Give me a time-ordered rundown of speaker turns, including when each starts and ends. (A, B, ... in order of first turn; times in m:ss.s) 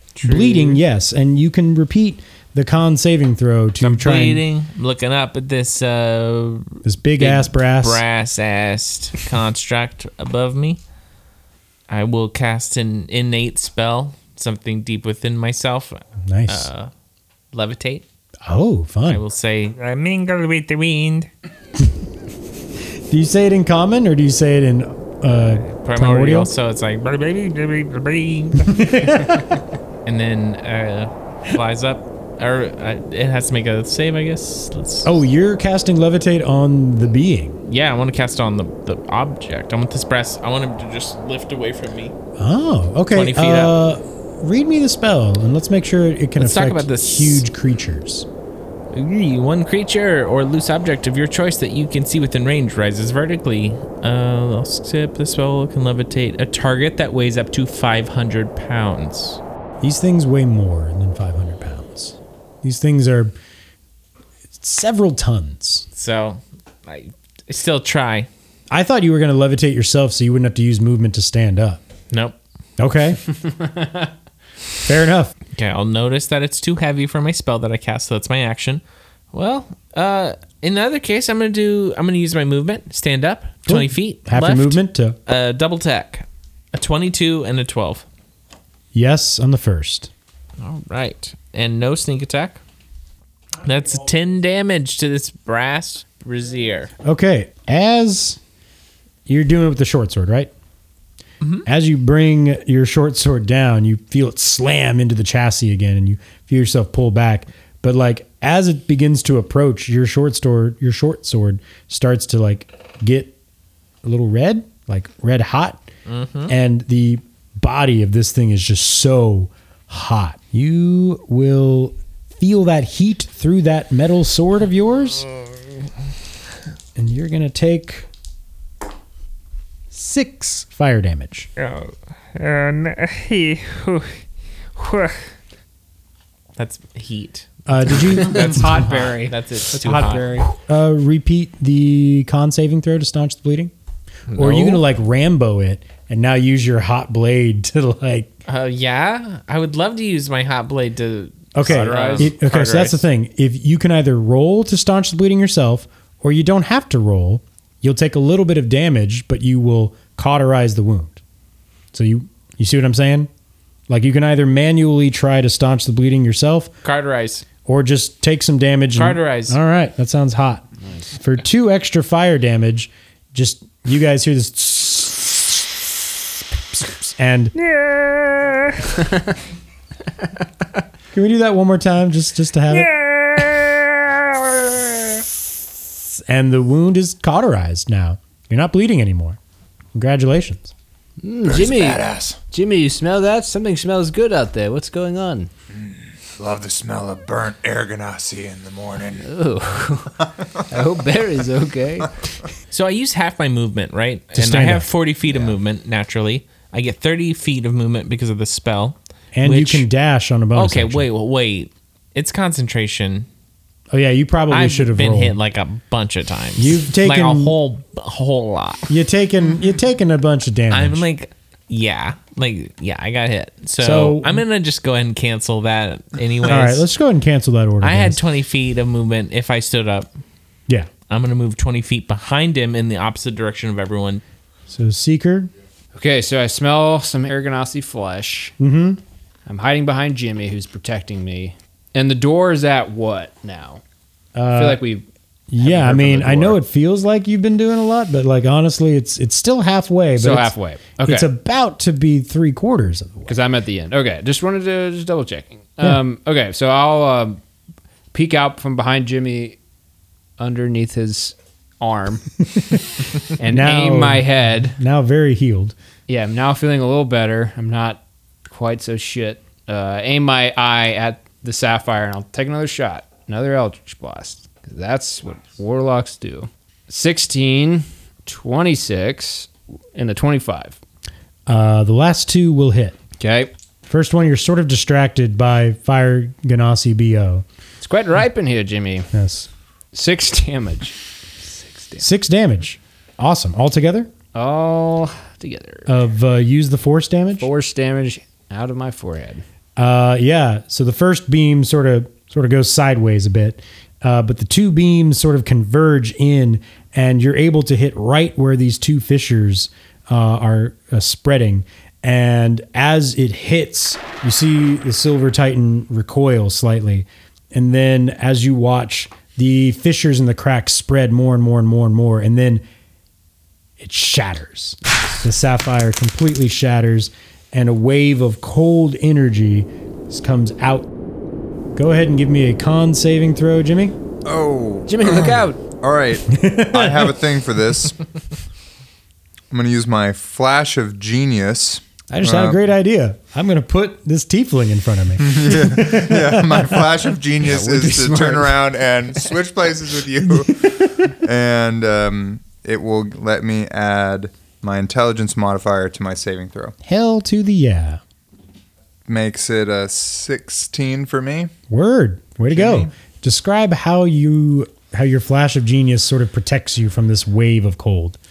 0:00.2-0:00.8 A
0:00.2-0:04.4 B
0:03.8-0:10.8 A
0:06.8-0:08.0 B
0:11.9-0:16.9 A
0:16.2-0:16.7 B
0:17.5-0:18.0 A
0:18.4-0:19.2 B
0:19.1-0:19.8 A
0:19.8-0:21.3 C
0:23.1-0:26.5 B
0:25.7-0:27.1 A
0:27.0-0:28.9 C
0:28.6-0:29.4 B
0:30.0-0:35.1 A
0:35.0-0:37.6 B
0:37.7-0:42.1 A
0:42.4-0:48.2 B
0:43.1-0:43.8 A
0:46.4-0:47.4 A
0:48.9-0:59.4 A
0:59.8-1:03.3 B
1:04.6-1:05.9 B
1:06.0-1:08.3 A
1:08.7-1:11.8 B
1:12.1-1:12.4 A
1:12.8-1:13.2 B
1:13.5-1:14.0 D
1:14.8-1:15.3 B
1:15.5-1:18.8 A
1:19.3-1:28.0 A
1:23.7-1:25.2 B
1:28.9-1:30.1 B
1:30.6-1:32.6 A
1:33.6-1:36.9 A
1:37.0-1:38.4 B
1:39.2-1:40.5 B
1:41.6-1:53.3 B
1:54.0-1:55.9 B
1:56.1-1:56.5 A
1:56.5-2:05.2 B
2:07.0-2:08.1 B
2:09.9-2:11.5 B
2:11.6-2:14.2 C
2:14.7-2:15.2 C
2:16.6-2:20.5 A
2:17.7-2:18.9 B
2:18.1-2:20.5 D
2:20.5-2:23.7 B
2:24.3-2:24.6 A
2:24.3-2:28.3 B
2:24.4-2:24.8 D
2:28.5-2:32.4 A
2:31.5-2:41.2 B
2:31.6-2:33.0 D
2:41.9-2:43.3 B
2:43.9-2:46.7 B
2:46.8-2:47.4 A
2:47.6-2:56.0 B
2:48.9-2:49.6 A
2:50.8-2:51.1 D
2:56.7-2:57.5 B
2:57.5-2:59.0 C
3:01.1-3:02.9 B
3:02.7-3:05.2 C
3:06.1-3:09.4 B
3:09.9-3:10.7 B
3:11.2-3:15.5 D
3:11.4-3:12.4 E
3:15.7-3:19.3 E
3:19.2-3:22.1 D
3:22.7-3:29.9 A
3:24.3-3:24.9 B
3:29.3-3:31.0 B
3:30.5-3:33.3 A
3:33.9-3:35.4 B
3:34.5-3:38.9 A
3:36.6-3:37.6 B
3:38.9-3:41.0 B
3:40.7-3:46.9 A
3:43.8-3:44.4 B
3:46.4-3:48.2 B
3:47.8-3:50.1 A
3:51.1-3:54.2 A
3:54.7-3:55.5 B
3:55.9-3:58.5 D
3:58.6-3:59.0 B
3:59.4-4:03.8 D
4:04.3-4:04.8 B
4:04.5-4:05.0 D
4:05.5-4:13.4 B
4:05.6-4:06.6 D
4:10.2-4:11.3 D
4:13.3-4:17.4 D
4:18.1-4:19.6 D
4:20.4-4:22.4 D
4:23.4-4:24.8 D
4:23.4-4:25.7 B
4:26.1-4:40.8 D
4:41.5-4:43.0 B
4:43.2-4:43.5 D
4:43.8-4:47.4 B
4:47.8-4:49.1 D
4:49.1-4:49.5 B
4:49.9-4:52.0 D
4:52.0-4:54.1 B
4:54.3-4:55.9 D
4:55.9-4:57.5 B
4:57.4-4:59.4 D
4:59.8-5:22.6 B
5:23.8-5:30.9 B
5:31.8-5:33.9 B
5:34.2-5:38.0 E
5:34.9-5:35.6 D
5:36.3-5:37.2 B
5:39.5-5:42.6 E
5:42.1-5:46.9 B
5:45.2-5:56.7 E
5:47.4-5:48.6 D
5:50.7-5:51.1 B
5:56.8-5:58.0 B
5:59.1-6:01.5 E
6:01.7-6:08.2 B
6:02.5-6:02.9 E